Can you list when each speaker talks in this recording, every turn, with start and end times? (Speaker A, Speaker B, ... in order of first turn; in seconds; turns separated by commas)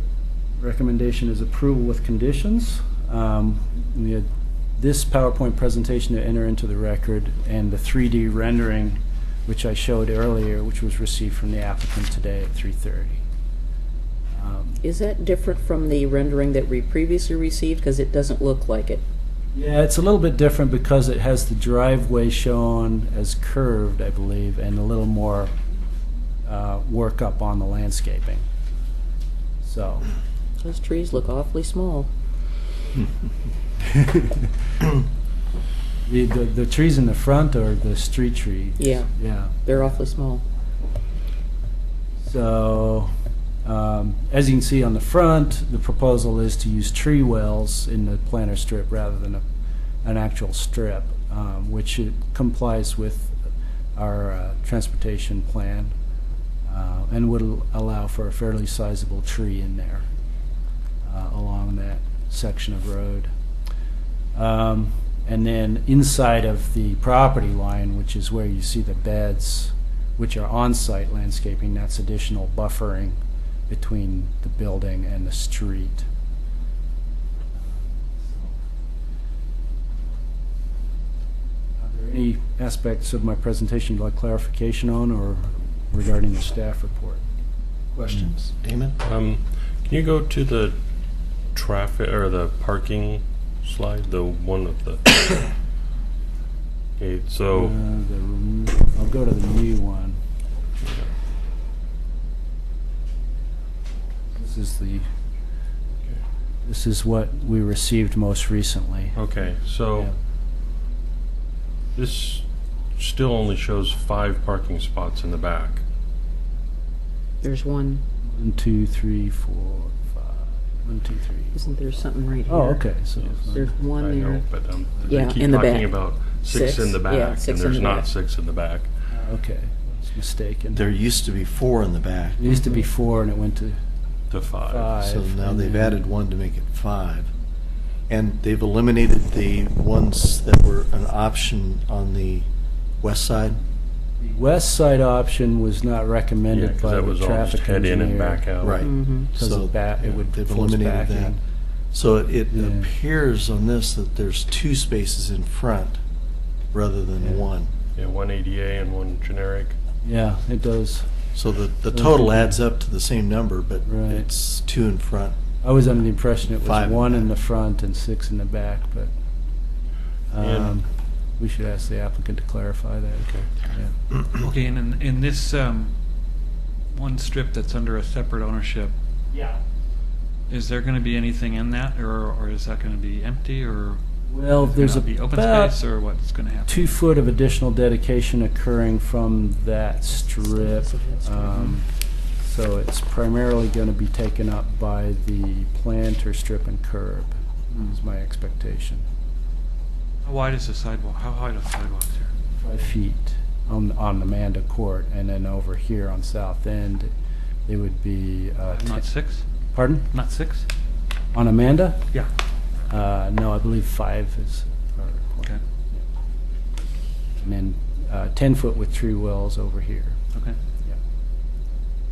Speaker A: 0.6-13.2, Speaker A: 14.4-14.8, Speaker B: 14.8-19.0, Speaker A: 19.5-25.5, Speaker A: 26.4-28.4, Speaker A: 29.6-30.1, Speaker B: 30.6-32.1, Speaker A: 33.9-34.5, Speaker A: 36.0-39.6, Speaker B: 38.8-40.4, Speaker A: 42.2-43.1, Speaker A: 43.6-49.4, Speaker A: 50.0-53.4, Speaker A: 53.9-55.9, Speaker A: 56.7-60.0, Speaker A: 61.0-63.3, Speaker A: 64.3-76.1, Speaker A: 77.6-78.5, Speaker A: 81.8-87.2, Speaker C: 87.9-89.0, Speaker D: 89.0-90.8, Speaker D: 91.5-95.5, Speaker D: 97.0-97.8, Speaker A: 97.5-100.2, Speaker D: 100.8-101.1, Speaker A: 104.3-105.0, Speaker A: 106.7-109.2, Speaker D: 109.1-110.1, Speaker D: 112.0-112.4, Speaker D: 113.0-115.8, Speaker B: 117.4-118.0, Speaker A: 118.2-121.7, Speaker B: 121.5-122.9, Speaker A: 122.5-123.7, Speaker B: 123.5-124.4, Speaker D: 123.9-128.9, Speaker B: 125.1-128.1, Speaker A: 129.1-130.8, Speaker C: 130.7-132.4, Speaker A: 132.4-133.8, Speaker D: 134.3-134.9, Speaker A: 134.7-136.1, Speaker C: 135.0-137.3, Speaker C: 138.1-142.5, Speaker C: 143.0-143.6, Speaker A: 144.2-148.4, Speaker D: 146.5-148.8, Speaker C: 148.6-151.3, Speaker B: 148.8-149.3, Speaker A: 149.3-151.4, Speaker C: 151.9-156.0, Speaker A: 152.5-152.9, Speaker C: 156.7-157.7, Speaker D: 158.0-159.7, Speaker A: 160.0-161.1, Speaker C: 161.3-165.3, Speaker A: 161.9-162.6, Speaker A: 163.8-164.2, Speaker A: 165.6-169.1, Speaker C: 166.6-167.2, Speaker A: 170.3-173.9, Speaker D: 170.4-170.7, Speaker E: 174.2-175.9, Speaker E: 176.9-178.9, Speaker A: 179.3-179.6, Speaker E: 180.5-187.0, Speaker A: 184.3-185.8, Speaker A: 186.7-191.9, Speaker B: 190.4-191.6, Speaker A: 192.4-197.3, Speaker A: 197.8-199.0, Speaker E: 200.2-202.3, Speaker A: 202.6-207.1, Speaker A: 207.7-209.0, Speaker E: 208.7-209.4, Speaker A: 209.7-210.1, Speaker E: 210.1-210.7, Speaker A: 211.3-212.1, Speaker A: 212.9-216.0, Speaker A: 217.4-220.2